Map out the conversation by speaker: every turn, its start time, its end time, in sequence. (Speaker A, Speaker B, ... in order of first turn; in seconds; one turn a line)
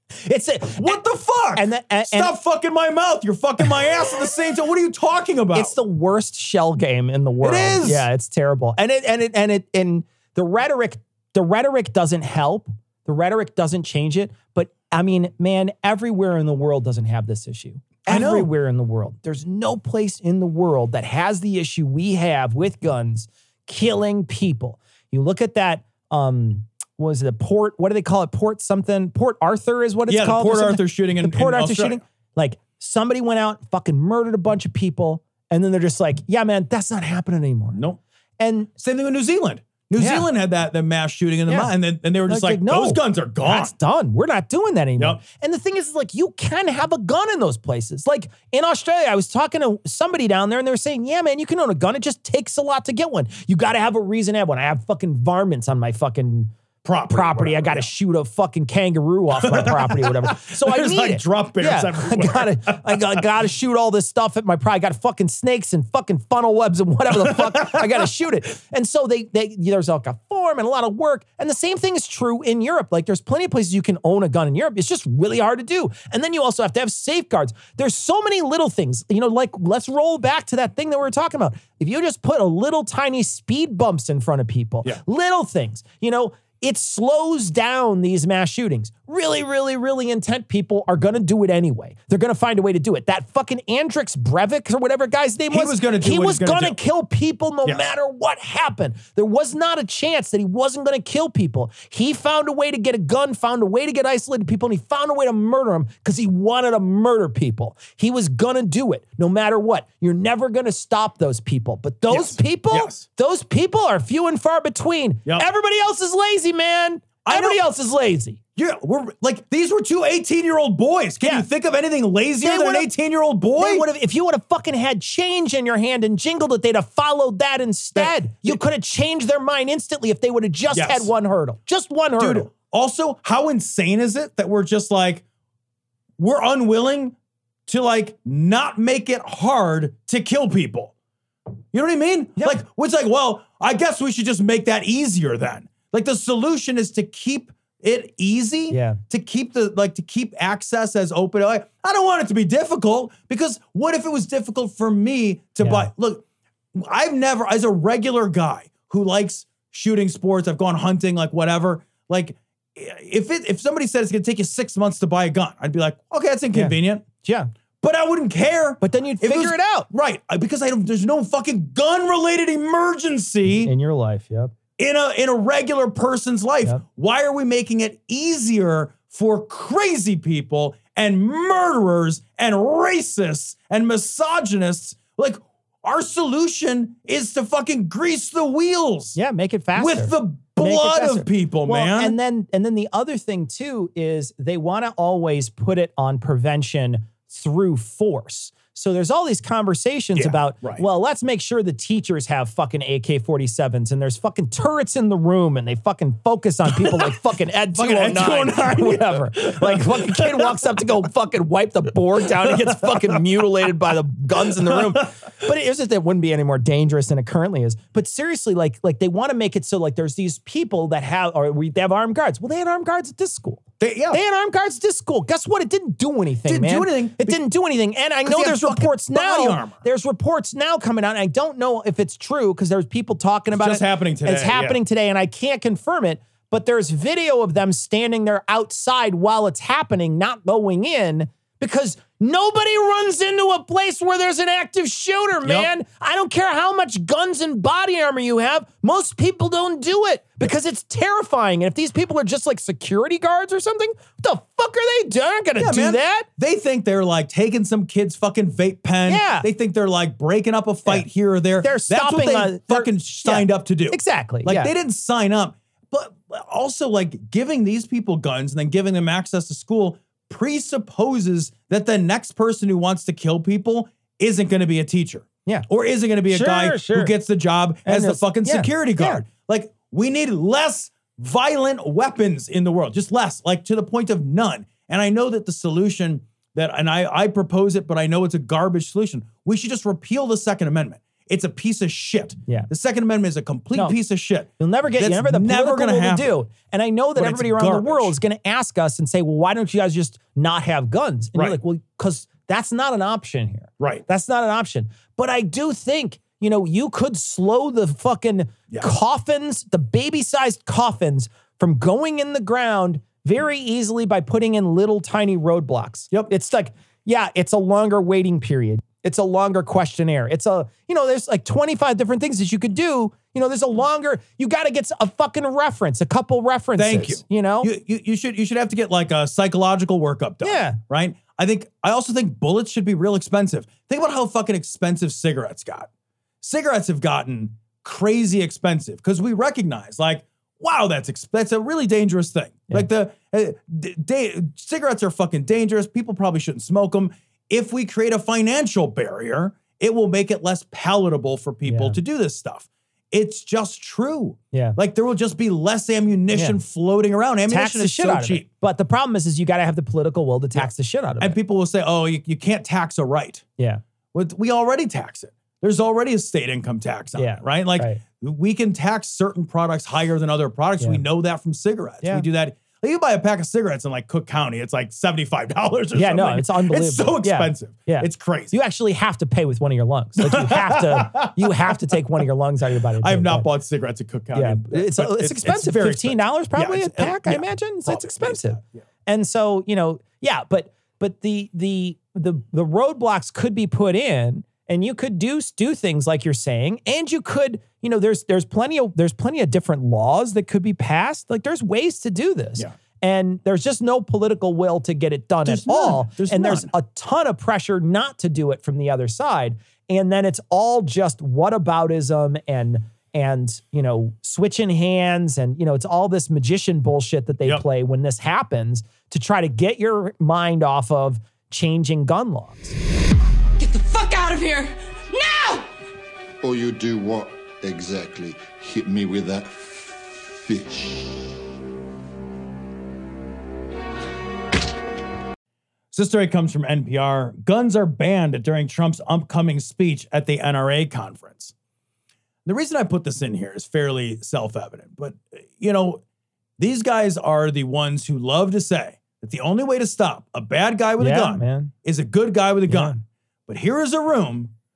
Speaker A: 0.2-1.0
Speaker B: 0.8-5.7
Speaker A: 1.6-2.4
Speaker A: 5.5-37.8
Speaker B: 7.4-8.1
Speaker B: 18.1-18.5
Speaker B: 30.1-32.0
Speaker A: 38.4-38.7
Speaker B: 38.8-43.7
Speaker A: 40.0-40.3
Speaker A: 42.3-56.5
Speaker B: 56.8-57.9
Speaker A: 57.1-118.4
Speaker B: 59.4-63.2
Speaker B: 67.1-68.1
Speaker B: 95.5-96.8
Speaker B: 112.1-113.0
Speaker B: 117.2-117.6
Speaker B: 118.6-123.9
Speaker A: 122.4-122.9
Speaker A: 123.6-132.5
Speaker B: 128.0-128.6
Speaker B: 130.7-131.1
Speaker B: 132.2-135.2
Speaker B: 136.2-137.2
Speaker B: 137.7-140.9
Speaker B: 141.7-156.2
Speaker A: 148.7-149.0
Speaker A: 155.6-155.9
Speaker B: 156.7-167.1
Speaker A: 166.5-167.5
Speaker B: 167.8-173.7
Speaker A: 168.8-169.9
Speaker A: 173.6-174.5
Speaker B: 174.8-189.2
Speaker A: 189.2-256.3
Speaker B: 189.8-192.2
Speaker B: 200.2-200.8
Speaker B: 206.7-207.2
Speaker B: 207.7-210.6
Speaker B: 212.4-213.2
Speaker B: 214.7-215.0
Speaker B: 223.8-224.2
Speaker B: 226.5-227.4
Speaker B: 228.2-229.8
Speaker B: 233.5-234.8
Speaker B: 245.4-245.7
Speaker B: 255.6-296.4
Speaker A: 259.1-259.5
Speaker A: 261.6-264.7
Speaker A: 276.3-277.1
Speaker A: 277.9-279.2
Speaker A: 294.6-327.7
Speaker B: 297.2-298.2
Speaker B: 303.8-304.1
Speaker B: 326.8-335.9
Speaker A: 330.4-330.8
Speaker B: 336.4-358.5
Speaker A: 351.6-352.0
Speaker A: 356.3-356.6
Speaker A: 357.5-361.4
Speaker B: 360.6-363.4
Speaker B: 364.1-378.5
Speaker A: 367.2-368.0
Speaker A: 375.9-383.5
Speaker B: 380.2-381.8
Speaker B: 383.0-388.8
Speaker A: 384.3-422.8
Speaker B: 405.4-406.7
Speaker C: 423.6-425.7
Speaker D: 426.4-431.1
Speaker B: 435.9-441.5
Speaker B: 442.5-446.0
Speaker B: 446.6-454.5
Speaker A: 451.0-451.7
Speaker A: 452.7-453.0